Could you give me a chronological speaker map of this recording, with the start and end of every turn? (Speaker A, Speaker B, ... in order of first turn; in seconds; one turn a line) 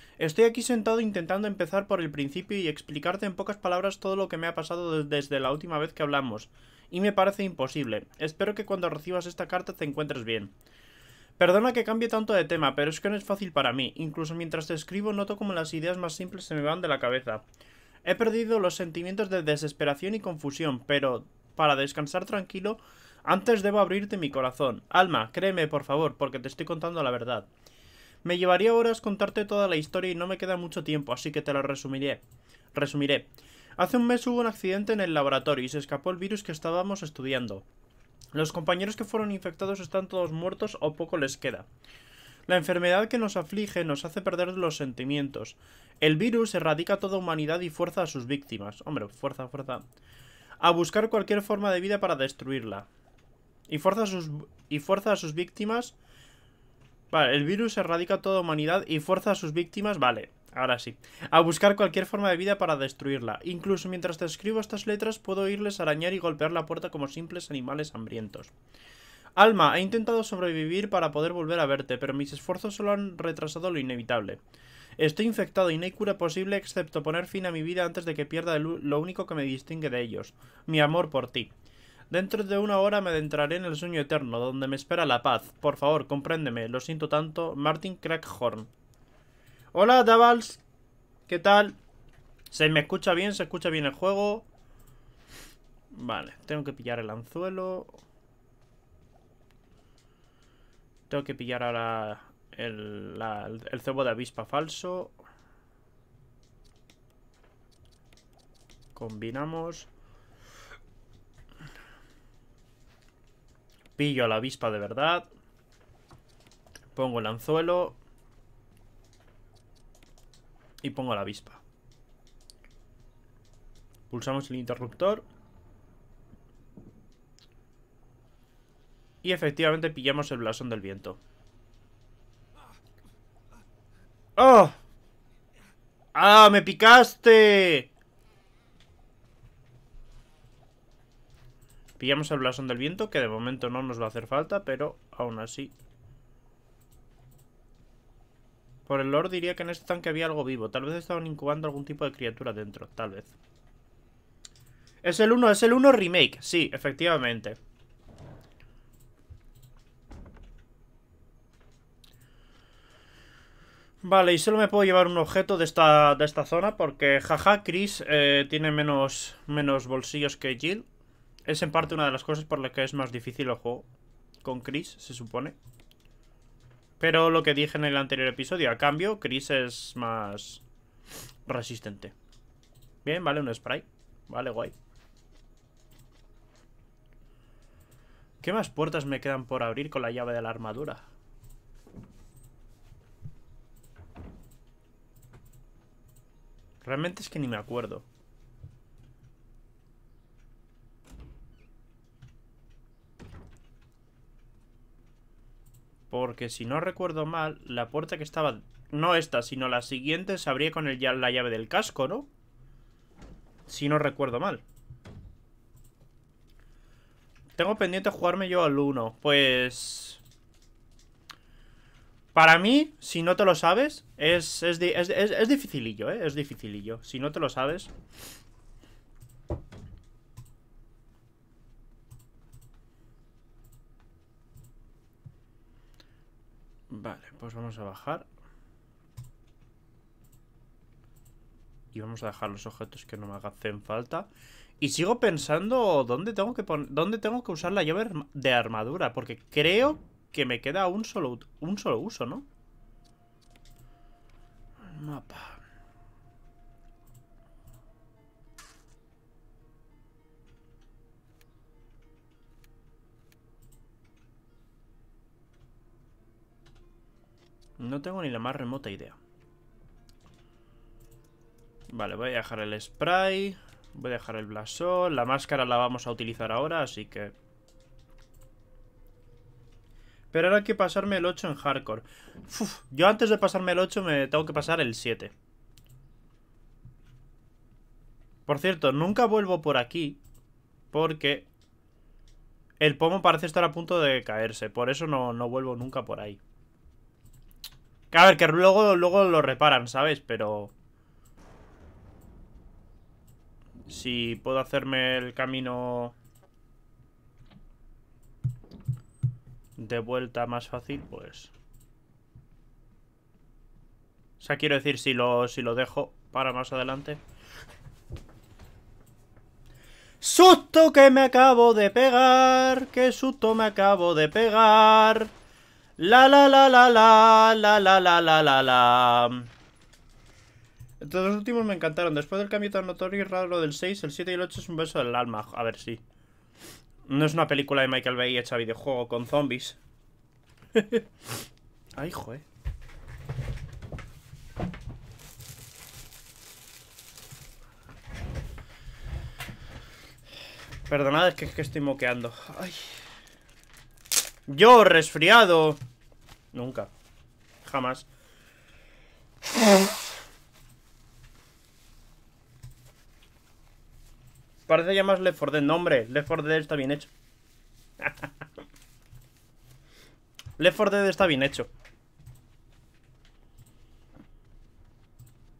Speaker A: 0.2-10.5
Speaker A: 11.4-17.4
Speaker A: 18.0-27.5
Speaker A: 28.2-32.2
Speaker A: 32.7-37.6
Speaker A: 38.3-41.7
Speaker A: 42.5-49.8
Speaker A: 50.6-52.9
Speaker A: 53.7-55.9
Speaker A: 57.1-68.5
Speaker A: 69.3-74.4
Speaker A: 75.0-81.5
Speaker A: 82.1-88.7
Speaker A: 89.7-90.6
Speaker A: 91.3-91.8
Speaker A: 92.5-94.5
Speaker A: 95.9-98.0
Speaker A: 101.1-105.1
Speaker A: 108.9-109.9
Speaker A: 114.0-115.3
Speaker A: 116.9-118.0
Speaker A: 120.8-121.6
Speaker A: 124.1-125.2
Speaker A: 129.2-131.2
Speaker A: 134.4-134.8
Speaker A: 136.1-137.9
Speaker A: 142.0-145.7
Speaker A: 148.8-153.3
Speaker A: 155.0-157.6
Speaker A: 164.0-170.8
Speaker A: 171.4-173.9
Speaker A: 174.4-175.6
Speaker A: 177.0-180.6
Speaker A: 181.5-182.1
Speaker A: 183.0-184.7
Speaker A: 188.4-191.0
Speaker A: 196.8-198.0
Speaker A: 206.1-212.3
Speaker A: 213.7-214.6
Speaker A: 217.6-220.2
Speaker A: 222.3-227.9
Speaker A: 236.9-238.2
Speaker A: 241.9-244.3
Speaker A: 244.8-252.4
Speaker A: 254.8-255.6
Speaker A: 267.8-269.2
Speaker A: 271.9-277.3
Speaker A: 280.3-285.3
Speaker A: 288.5-290.2
Speaker A: 290.9-291.5
Speaker A: 292.8-296.4
Speaker A: 298.1-300.7
Speaker A: 303.9-306.1
Speaker A: 309.8-311.5
Speaker A: 314.4-317.2
Speaker A: 320.2-325.3
Speaker A: 326.0-329.5
Speaker A: 331.0-336.0
Speaker A: 337.1-339.8
Speaker A: 340.7-341.0
Speaker A: 341.9-342.4
Speaker A: 350.9-353.0
Speaker A: 354.5-355.8
Speaker A: 356.5-356.9
Speaker A: 357.6-358.1
Speaker A: 364.7-367.1
Speaker A: 368.0-368.3
Speaker A: 370.6-371.7